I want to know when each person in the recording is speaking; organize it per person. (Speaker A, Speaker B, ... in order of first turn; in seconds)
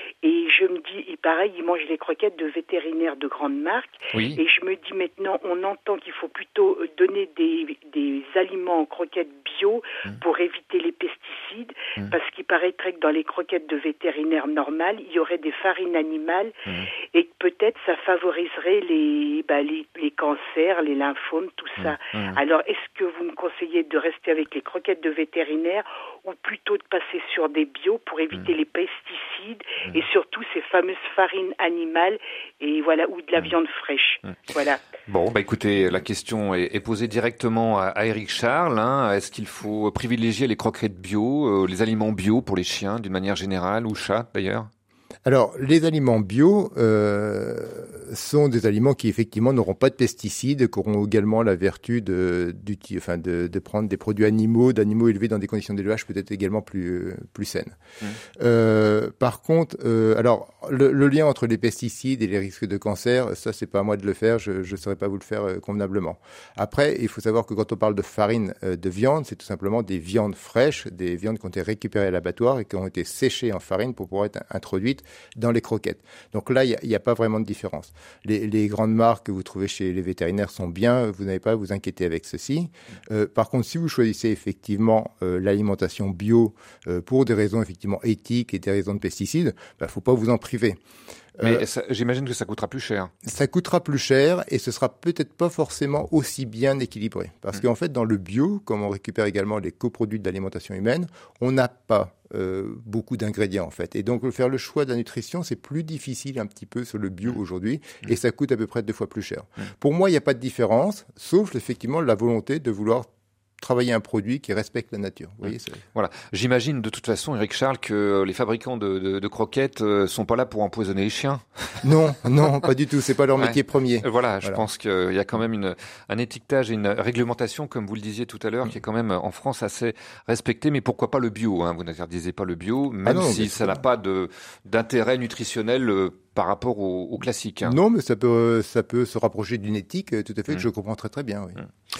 Speaker A: 0.2-16.5, 17.1-34.8
Speaker B: 4.1-4.4, 21.8-22.4, 35.1-44.7, 91.4-93.1, 115.4-121.8, 123.4-137.8
Speaker C: 45.2-57.8, 58.3-90.8, 91.4-91.6, 93.2-113.1, 113.6-115.8, 121.8-124.6, 133.0-133.8, 137.6-141.6